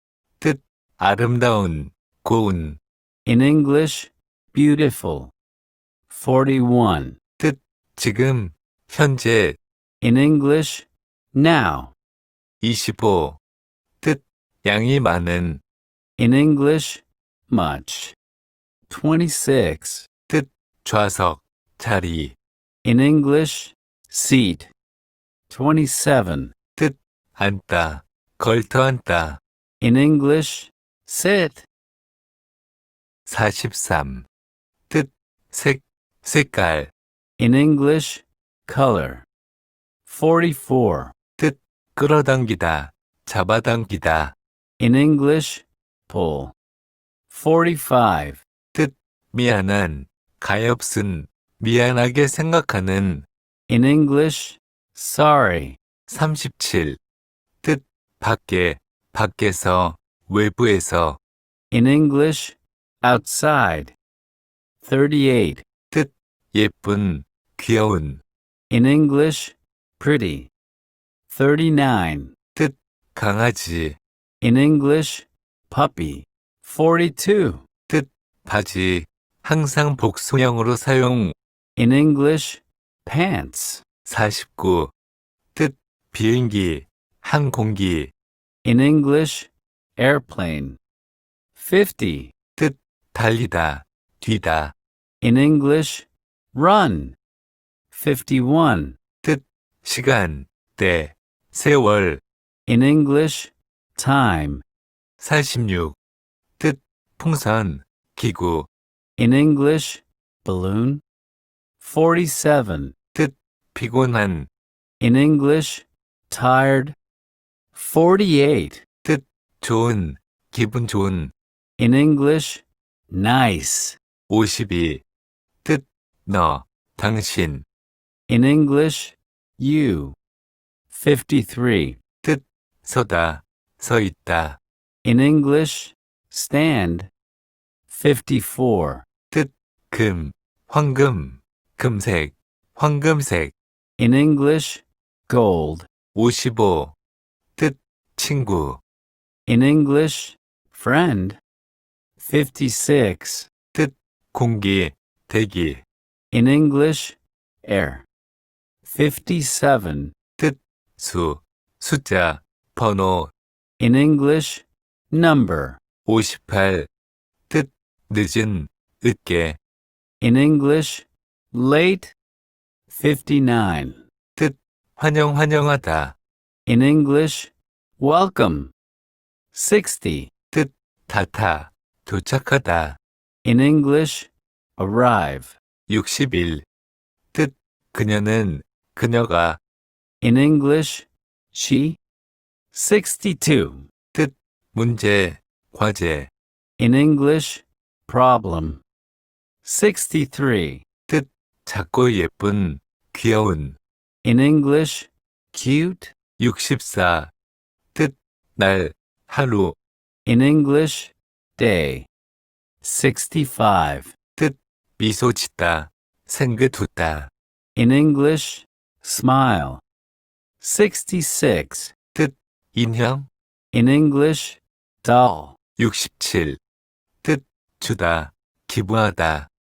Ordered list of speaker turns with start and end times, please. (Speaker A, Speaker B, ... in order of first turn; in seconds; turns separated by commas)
Speaker A: 0.4-2.8, Speaker B: 3.2-5.3, Speaker B: 6.1-7.2, Speaker A: 7.4-9.6, Speaker B: 10.0-11.9, Speaker A: 12.6-13.4, Speaker A: 14.0-15.6, Speaker B: 16.2-18.1, Speaker B: 18.9-20.1, Speaker A: 20.3-22.4, Speaker B: 22.8-24.7, Speaker B: 25.5-26.6, Speaker A: 26.8-29.4, Speaker B: 29.8-31.7, Speaker A: 33.3-34.3, Speaker A: 34.9-36.9, Speaker B: 37.4-39.3, Speaker B: 40.0-41.1, Speaker A: 41.4-44.4, Speaker B: 44.8-46.5, Speaker B: 47.3-48.5, Speaker A: 48.8-53.3, Speaker B: 53.7-55.8, Speaker A: 56.1-57.0, Speaker A: 57.6-61.2, Speaker B: 61.7-64.0, Speaker B: 64.8-65.7, Speaker A: 65.9-68.2, Speaker B: 68.7-70.5, Speaker B: 71.3-72.4, Speaker A: 73.2-74.0, Speaker B: 74.4-77.6, Speaker A: 77.9-81.3, Speaker B: 81.8-83.8, Speaker A: 84.1-84.9, Speaker A: 85.6-88.1, Speaker B: 88.6-90.8, Speaker B: 91.5-92.3, Speaker A: 92.6-94.7, Speaker B: 95.2-97.2, Speaker B: 97.9-99.0, Speaker A: 99.3-102.2, Speaker B: 102.7-104.6, Speaker A: 105.2-106.0, Speaker A: 106.6-108.7, Speaker B: 109.2-111.0, Speaker B: 111.8-113.0, Speaker A: 113.2-114.5, Speaker B: 115.0-117.0, Speaker B: 117.7-118.9, Speaker A: 119.1-121.3, Speaker B: 121.8-124.0, Speaker A: 124.3-125.0, Speaker A: 125.7-127.7, Speaker B: 128.3-130.2, Speaker B: 130.9-132.0, Speaker A: 132.3-134.6, Speaker B: 135.0-137.1, Speaker B: 137.9-139.1, Speaker A: 139.3-143.5, Speaker B: 144.0-145.9, Speaker A: 146.2-146.9, Speaker A: 147.6-148.8, Speaker B: 149.5-151.4, Speaker B: 152.2-153.5, Speaker A: 154.3-155.8, Speaker B: 156.3-158.1, Speaker B: 158.8-160.1, Speaker A: 160.4-163.3, Speaker B: 163.8-165.8, Speaker A: 166.1-166.9, Speaker A: 167.5-169.6, Speaker B: 170.2-172.1, Speaker B: 172.9-174.0, Speaker A: 174.4-176.2, Speaker B: 176.7-178.7, Speaker B: 179.5-180.3, Speaker A: 180.5-183.0, Speaker B: 183.4-185.6, Speaker A: 185.9-186.6, Speaker A: 187.3-189.6, Speaker B: 190.2-192.0, Speaker B: 192.7-193.9, Speaker A: 194.2-196.3, Speaker B: 196.8-198.8, Speaker B: 199.6-200.9, Speaker A: 201.1-203.8, Speaker B: 204.2-206.1, Speaker A: 206.4-207.3, Speaker A: 207.9-209.8, Speaker B: 210.2-212.1, Speaker B: 212.8-214.2, Speaker A: 215.0-217.3, Speaker B: 217.8-219.8, Speaker B: 220.6-222.0, Speaker A: 222.7-223.3, Speaker B: 223.7-225.6, Speaker A: 225.8-226.6, Speaker A: 227.2-229.5